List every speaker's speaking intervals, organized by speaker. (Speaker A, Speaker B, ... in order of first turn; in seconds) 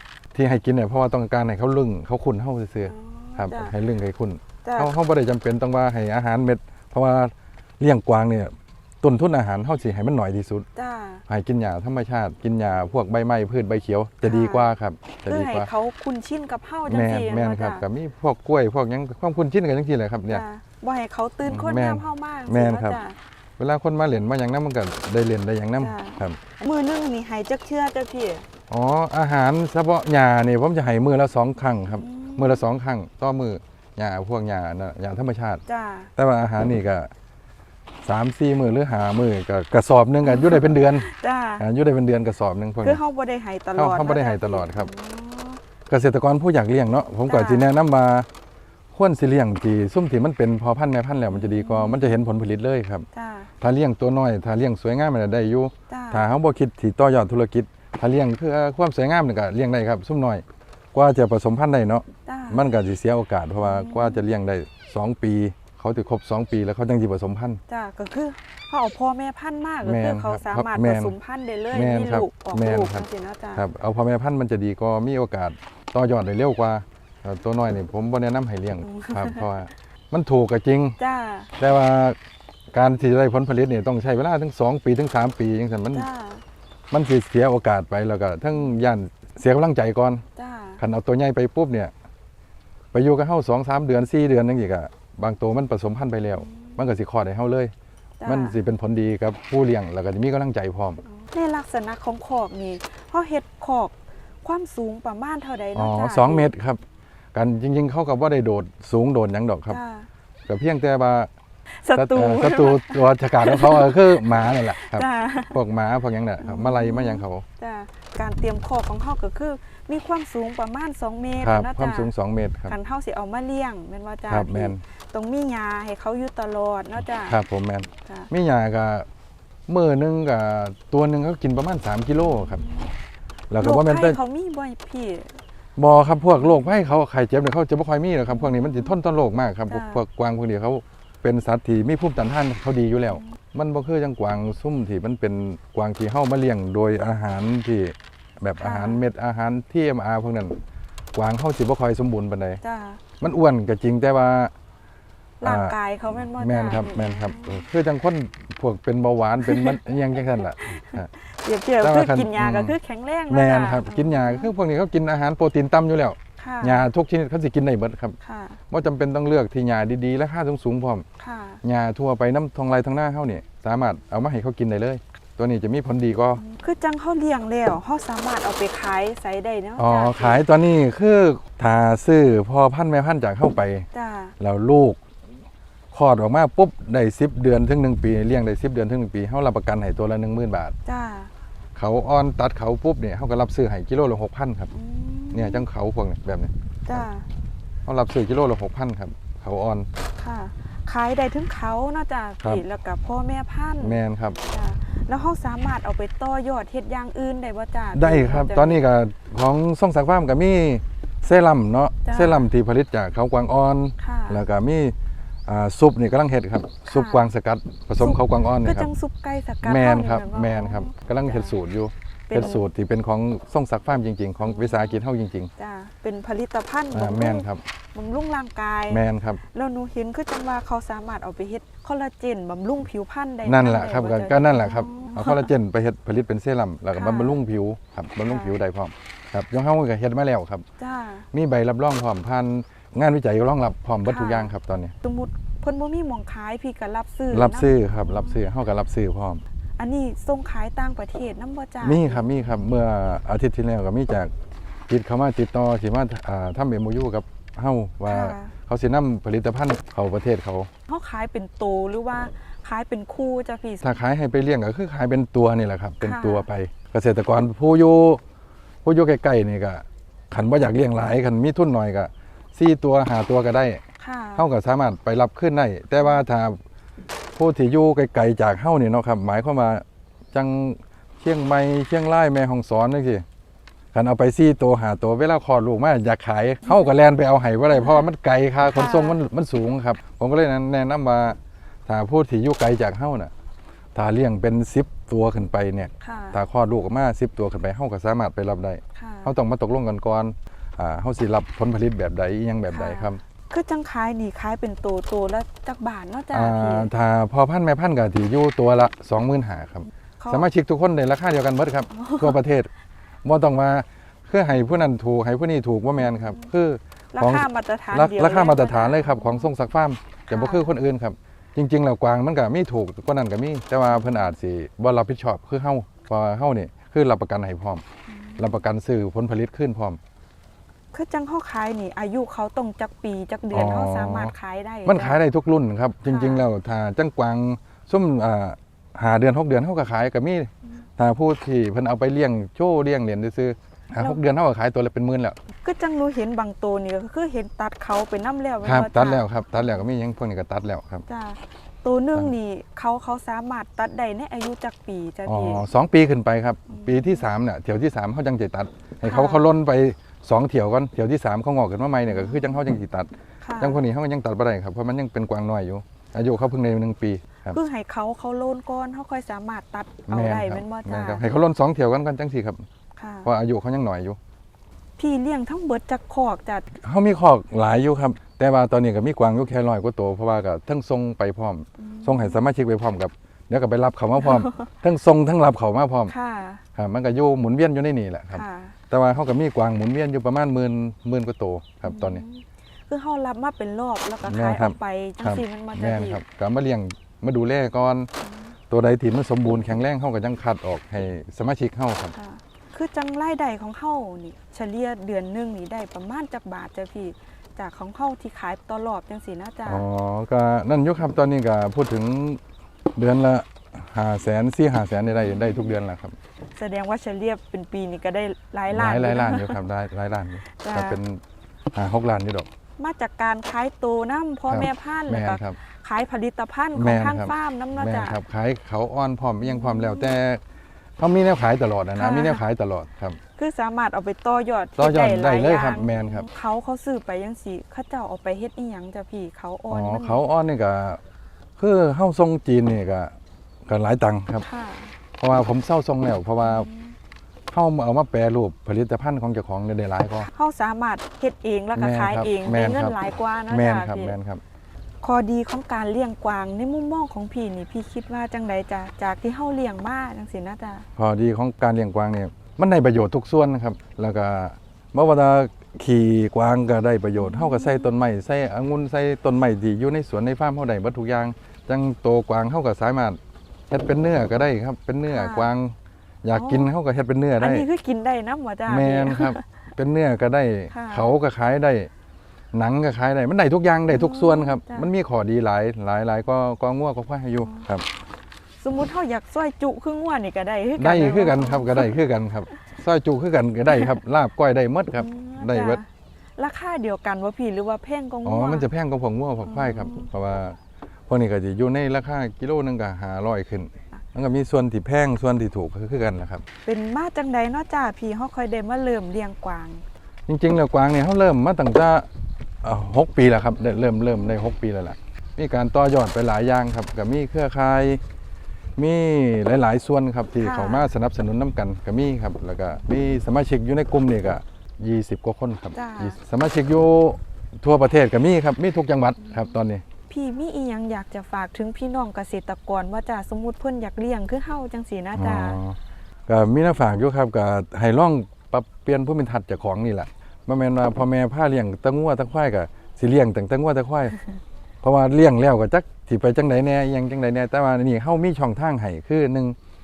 Speaker A: 0.3-10.7, 11.3-15.7, 16.9-20.4, 21.4-23.0, 23.6-26.4, 28.7-35.6, 36.1-37.1, 38.0-41.1, 41.6-43.0, 43.7-44.9, 45.9-48.3, 48.9-53.0, 53.6-67.6, 69.8-71.1, 71.7-73.0, 73.5-81.0, 81.6-82.2, 82.7-86.1, 86.9-90.2, 90.8-91.9, 92.9-97.7, 98.2-101.0, 105.8-106.8, 107.3-109.8, 110.5-111.3, 111.9-117.4, 121.4-122.7, 124.3-124.8, 127.2-129.1, 129.7-132.6, 133.5-134.2, 135.8-150.6, 151.1-152.6, 153.2-154.5, 155.4-155.8, 156.3-161.1, 161.8-162.7, 163.3-168.2, 168.7-171.1, 171.6-176.4, 179.8-183.9, 184.4-185.0, 185.9-190.7, 191.8-194.7, 195.3-196.5, 197.8-199.9, 203.8-204.4, 207.9-214.9, 215.4-218.9, 219.6-225.5, 226.9-227.6, 228.9-229.4, 233.4-240.6, 241.3-244.9, 247.3-249.4, 251.8-254.3, 254.9-260.7, 263.8-268.2, 268.8-273.8, 274.4-276.6, 277.4-283.2, 283.9-293.3, 293.9-303.2, 306.3-312.7, 313.2-327.8, 328.4-330.0, 333.5-334.3, 334.9-345.4, 348.6-351.0, 355.2-367.6, 370.1-372.6, 373.2-374.2, 376.7-386.1, 386.7-392.2, 394.2-398.1, 398.7-402.1, 409.6-412.4, 412.9-416.1, 418.7-421.2, 421.7-422.5, 424.5-425.6, 426.7-430.4, 431.0-433.2, 434.8-436.3, 439.7-441.0, 441.6-443.1, 443.6-444.4, 445.2-446.7, 447.5-450.3, 451.8-454.4, 460.9-473.2, 473.7-477.7, 478.7-481.9, 482.5-487.9, 490.8-495.8, 498.2-506.4, 510.3-512.1, 512.6-518.0, 518.8-529.8, 535.1-544.2, 544.8-549.5
Speaker B: 2.9-3.7, 4.6-4.9, 10.8-11.2, 14.2-14.7, 15.2-17.9, 20.3-23.2, 25.8-28.5, 31.9-32.6, 35.6-36.1, 40.2-41.6, 42.8-45.6, 47.2-47.7, 51.3-52.1, 53.1-53.5, 55.9-56.3, 62.2-62.7, 63.6-64.2, 67.7-73.6, 78.8-79.4, 81.0-81.5, 85.9-86.4, 90.3-90.8, 96.4-96.8, 98.2-98.6, 101.2-106.5, 109.7-110.1, 111.8-115.6, 116.4-122.1, 122.7-127.4, 132.2-132.9, 133.6-135.4, 138.3-138.9, 139.7-140.0, 148.6-149.0, 152.6-153.0, 155.4-157.6, 159.4-159.8, 160.4-164.5, 166.4-166.9, 168.2-168.6, 171.2-171.6, 176.4-180.4, 183.9-184.3, 190.8-191.3, 194.7-195.6, 196.9-197.3, 200.2-208.8, 212.0-212.5, 214.0-214.4, 216.9-217.3, 218.0-221.5, 222.3-222.6, 224.4-225.0, 225.6-235.5, 236.9-237.4, 238.2-238.6, 240.8-241.3, 244.0-248.4, 249.8-252.2, 258.1-258.5, 260.9-264.0, 266.0-266.5, 274.0-274.5, 288.6-289.2, 296.0-296.4, 298.9-299.3, 302.7-306.9, 310.2-310.5, 311.9-312.4, 316.0-316.5, 317.1-319.5, 320.3-320.7, 323.9-324.3, 328.1-328.6, 330.9-335.2, 336.1-336.4, 345.6-349.2, 351.1-355.6, 356.7-357.2, 359.0-359.5, 362.1-362.5, 363.4-363.8, 367.5-371.2, 372.9-373.3, 375.0-376.7, 381.8-382.4, 384.2-384.6, 386.1-386.6, 388.3-388.7, 391.9-396.2, 398.2-398.5, 402.1-409.8, 416.6-419.6, 420.6-421.0, 422.8-428.2, 429.4-430.1, 431.9-432.4, 433.4-440.2, 444.4-444.9, 446.4-446.9, 450.2-454.1, 455.0-460.9, 467.2-467.9, 475.1-475.5, 476.3-476.7, 477.4-479.4, 480.7-481.1, 483.9-484.9, 488.6-491.9, 495.0-495.9, 496.4-498.7, 499.4-500.1, 506.6-509.8, 520.4-520.9, 525.7-526.2, 530.1-535.6